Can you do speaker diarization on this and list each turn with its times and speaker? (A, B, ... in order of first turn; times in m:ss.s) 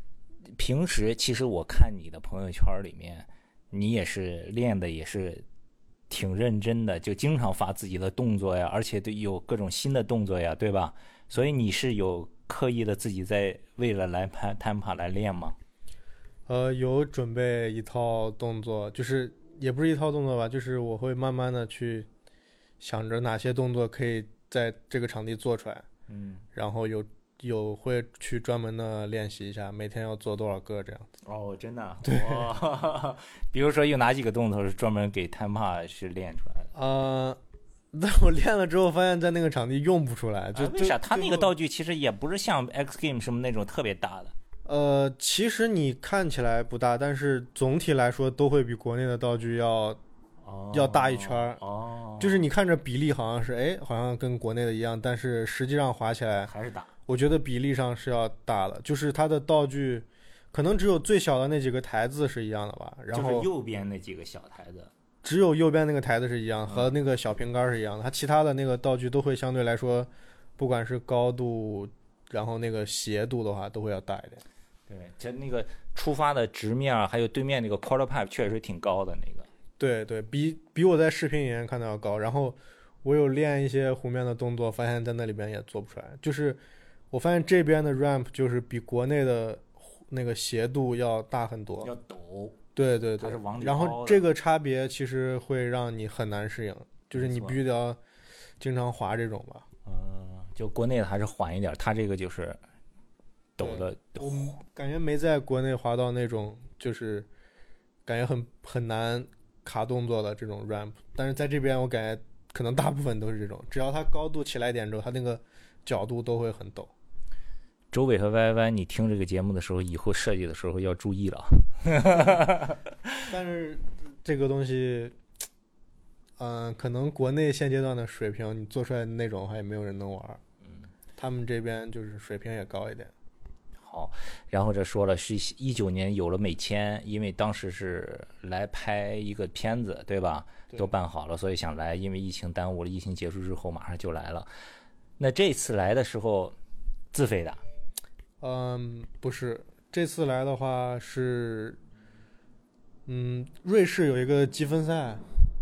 0:00.5-0:05.4 A
0:06.1-0:15.6 A
0:16.5-0:22.1 B
0:22.8-0:25.8 B
0:26.1-0:26.4 A
0:26.5-0:31.1 B
0:31.2-0:36.7 A
0:32.0-0:32.5 B
0:36.7-0:37.4 B
0:37.9-0:41.5 B
0:40.5-0:44.3 A
0:44.6-0:50.0 B
0:50.4-0:52.4 A
0:50.7-0:51.6 B
0:52.2-0:56.5 B
0:56.4-0:56.9 A
0:57.1-1:03.5 B
1:03.1-1:04.9 A
1:05.2-1:14.4 B
1:06.7-1:06.9 A
1:14.9-1:19.5 A
1:19.8-1:26.6 B
1:27.1-1:31.9 B
1:31.8-1:32.6 A
1:32.8-1:38.0 B
1:33.2-1:34.2 A
1:37.1-1:37.6 A
1:38.6-1:39.6 B
1:39.8-1:42.6 A
1:43.6-1:44.6 A
1:43.6-1:47.3 B
1:48.0-1:56.9 B
1:57.9-2:03.2 A
2:03.2-2:05.2 B
2:06.4-2:10.4 B
2:10.6-2:10.9 A
2:11.2-2:13.1 B
2:13.8-2:24.5 A
2:25.2-2:26.6 A
2:27.1-2:27.6 A
2:28.4-2:31.8 B
2:33.1-2:35.2 B